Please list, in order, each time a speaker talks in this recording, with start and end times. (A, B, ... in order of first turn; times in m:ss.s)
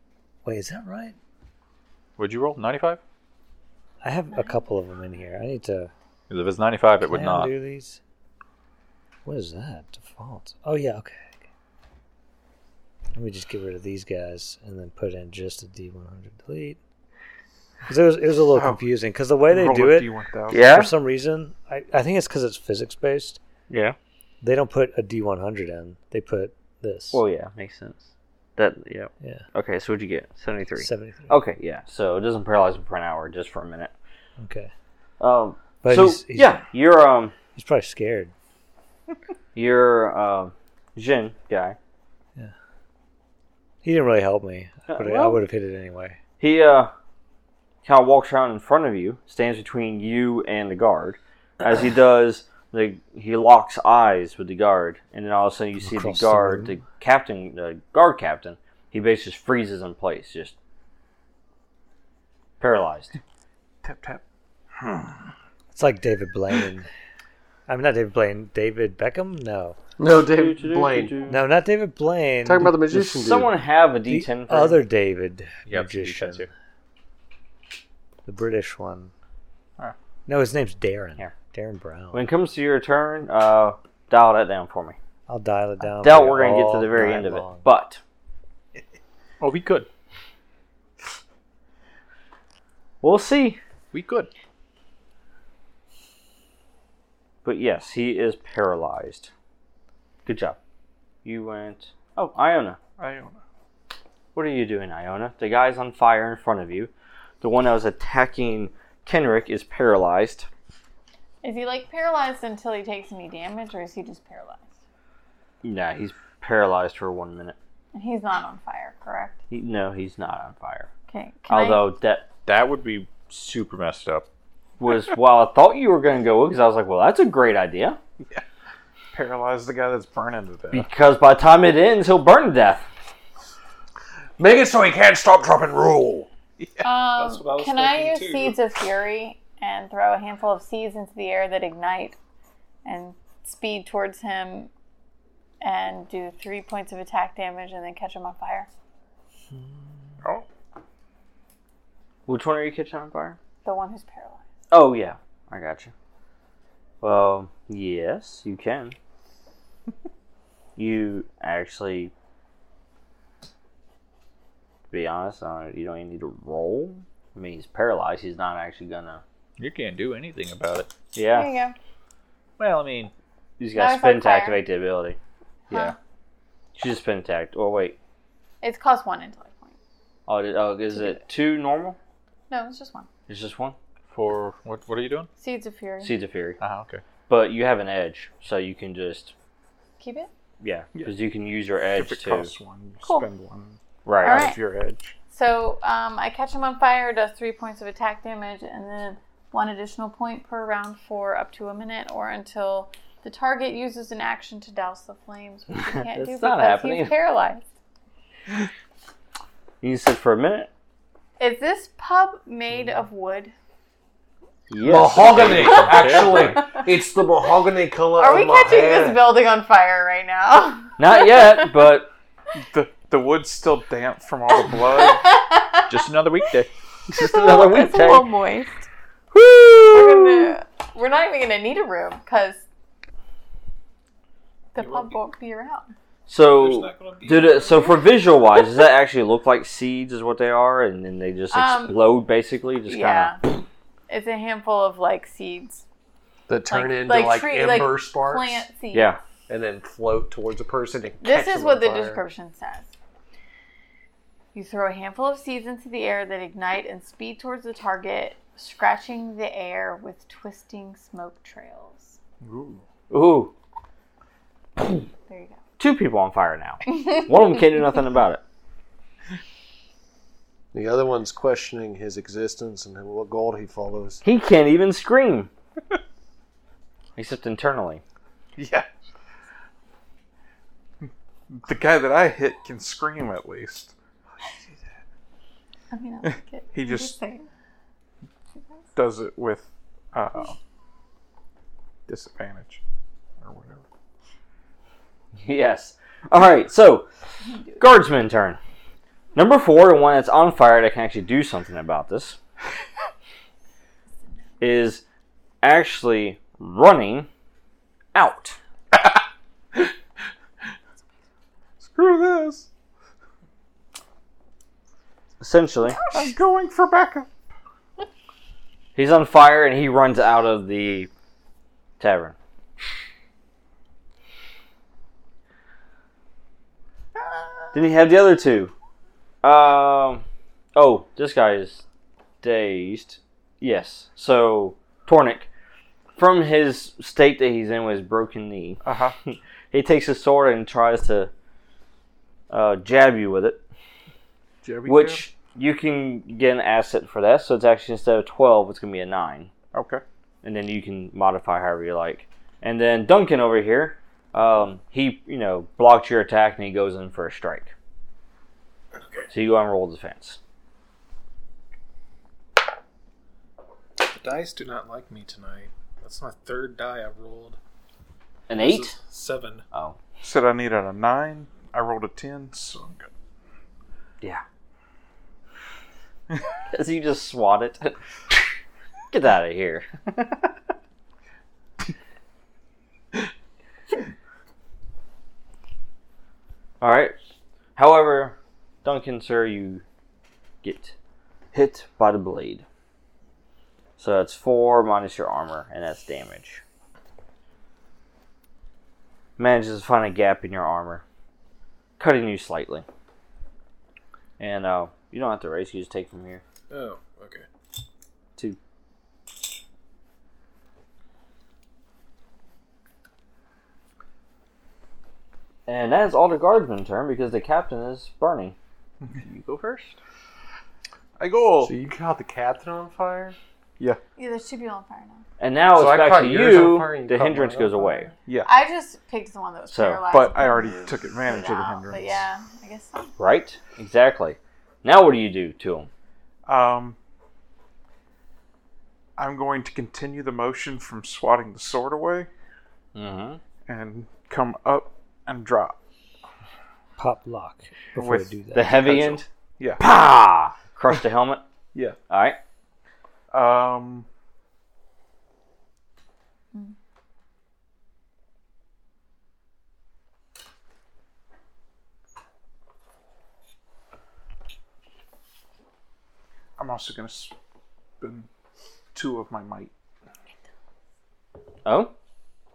0:00.4-0:01.2 A
0:02.2-0:03.0 B
0:04.0-0:05.9 A
0:06.3-0:07.5 B
0:07.0-0:08.0 A
0:09.3-0:11.4 A
0:13.1-0:16.8 A
0:17.9-0:23.4 A
0:18.5-0:18.9 C
0:19.4-0:20.7 C
0:20.5-0:20.9 D
0:23.7-0:24.0 D
0:24.4-0:27.2 A
0:27.1-0:33.9 D
0:30.8-0:31.3 A
0:34.4-0:34.7 A
0:35.2-0:37.3 D
0:35.8-0:36.6 A
0:37.6-0:38.3 A
0:39.6-0:41.8 D
0:43.8-0:46.2 A
0:44.9-0:45.4 D
0:46.4-0:46.9 D
0:47.8-1:00.6 D
0:55.8-0:56.8 A
1:02.6-1:03.2 D
1:03.8-1:04.2 C
1:04.8-1:05.2 C
1:05.7-1:06.9 A
1:07.7-1:09.8 A
1:10.0-1:11.2 E
1:10.2-1:11.4 D
1:11.3-1:13.0 A
1:12.4-1:13.5 E
1:12.9-1:14.8 D
1:14.1-1:16.5 A
1:15.7-1:16.5 B
1:18.3-1:19.1 A
1:20.3-1:22.2 A
1:22.1-1:25.0 D
1:25.3-1:27.7 A
1:25.8-1:28.0 D
1:29.4-1:29.9 B
1:33.0-1:33.6 D
1:33.9-1:34.3 B
1:37.4-1:39.3 D
1:40.3-1:40.6 D
1:41.2-1:42.8 D
1:43.0-1:43.4 C
1:44.3-1:50.5 D
1:51.4-1:54.8 F
1:55.6-1:57.6 D
1:57.9-1:59.4 F
1:59.5-2:00.9 D
2:01.1-2:01.9 F
2:01.5-2:02.3 D
2:02.5-2:04.3 B
2:04.8-2:08.0 D
2:09.1-2:10.9 C
2:10.7-2:12.9 D
2:14.4-2:16.3 E
2:16.6-2:16.9 C
2:16.8-2:22.2 F
2:17.1-2:18.6 G
2:22.8-2:24.7 F
2:25.6-2:28.7 F
2:32.3-2:33.4 D
2:33.6-2:34.5 F
2:34.7-2:35.9 D
2:37.0-2:39.0 D
2:40.8-2:42.1 D
2:44.9-2:49.2 D
2:49.6-2:50.9 B
2:51.1-2:51.5 D
2:51.3-2:51.8 F
2:52.6-2:53.1 B
2:53.6-2:55.2 D
2:53.8-2:54.6 F
2:55.7-2:56.0 D
2:55.7-2:56.0 F
2:56.8-2:58.0 D
2:58.6-2:59.8 F
3:00.3-3:02.0 D
3:00.9-3:01.2 F
3:02.5-3:03.1 F
3:03.3-3:03.8 D
3:04.1-3:05.3 B
3:05.4-3:06.1 F
3:06.0-3:06.6 D
3:06.6-3:07.0 B
3:07.3-3:09.3 D
3:10.0-3:10.3 F
3:10.6-3:12.5 D
3:11.9-3:15.2 C
3:13.0-3:13.3 F
3:14.0-3:14.4 D
3:14.2-3:14.6 F
3:15.3-3:27.6 F
3:25.9-3:27.1 D
3:29.8-3:30.7 D
3:31.4-3:33.5 F
3:34.7-3:36.6 D
3:34.8-3:39.2 E
3:35.2-3:36.4 B
3:36.4-3:36.9 F
3:38.2-3:41.7 F
3:41.0-3:42.1 D
3:42.6-3:45.3 C
3:44.5-3:46.1 F
3:45.9-3:46.7 B
3:47.1-3:48.3 D
3:47.1-3:48.9 F
3:49.3-3:50.6 D
3:49.9-3:52.6 F
3:54.7-3:55.9 F
3:54.8-3:55.2 G
3:56.3-4:03.3 D
3:56.6-3:58.0 G
4:01.5-4:02.0 F
4:02.9-4:03.5 F
4:04.1-4:05.8 F
4:06.5-4:08.6 E
4:06.7-4:09.1 F
4:08.9-4:09.2 D
4:09.5-4:12.2 E
4:11.2-4:12.9 F
4:14.5-4:22.2 F
4:22.4-4:22.8 C
4:23.1-4:23.5 D
4:25.3-4:25.6 F
4:25.8-4:28.4 D
4:26.9-4:27.2 F
4:30.7-4:34.2 E
4:34.2-4:35.5 D
4:37.2-4:38.0 D
4:38.6-4:38.9 C
4:41.0-4:44.5 C
4:45.9-4:47.5 F
4:46.7-4:47.1 C
4:49.0-4:50.6 C
4:52.1-4:52.8 C
4:53.4-4:53.8 C
4:55.4-4:57.1 D
4:57.7-4:58.6 D
4:59.4-5:02.4 D
5:04.6-5:05.0 D
5:05.6-5:07.3 D
5:08.1-5:08.6 D
5:11.8-5:12.7 C
5:15.4-5:16.0 D
5:16.1-5:17.3 C
5:19.0-5:21.1 D
5:22.0-5:22.4 D
5:27.7-5:28.7 D
5:29.4-5:30.2 D
5:30.8-5:31.8 D
5:32.4-5:35.5 D
5:36.2-5:41.3 D
5:38.8-5:39.2 C
5:42.5-5:43.6 D
5:44.6-5:45.3 C
5:44.9-5:49.5 D
5:49.7-5:50.0 C
5:50.4-5:57.7 D
5:59.0-5:59.3 G
5:59.3-6:00.4 D
6:04.0-6:07.6 G
6:08.5-6:09.0 D
6:08.5-6:09.6 G
6:09.7-6:10.0 D
6:10.2-6:13.1 C
6:16.7-6:18.5 D
6:19.1-6:20.4 D
6:26.8-6:27.2 D
6:27.8-6:29.8 D
6:30.6-6:31.0 D
6:31.5-6:32.6 D
6:34.0-6:36.6 D
6:39.4-6:41.0 D
6:42.0-6:42.9 D
6:44.4-6:46.4 D
6:46.7-6:47.5 G
6:55.7-6:58.6 D
6:59.3-6:59.9 B
6:59.6-6:59.9 D
7:01.2-7:01.7 C
7:01.6-7:03.4 E
7:04.2-7:05.2 F
7:05.4-7:08.1 D
7:05.7-7:08.1 E
7:08.3-7:08.5 C
7:08.4-7:13.1 F
7:09.7-7:10.0 D
7:10.1-7:12.2 C
7:13.2-7:15.9 D
7:16.5-7:17.0 C
7:19.2-7:22.3 C
7:23.0-7:23.4 D
7:23.7-7:25.8 C
7:27.0-7:28.8 A
7:28.0-7:29.8 C
7:28.5-7:29.3 D
7:29.8-7:31.4 D
7:32.1-7:32.4 D
7:33.3-7:34.1 C
7:46.6-7:47.3 C
7:48.0-7:48.3 C
7:48.9-7:49.7 C
7:51.6-7:51.9 D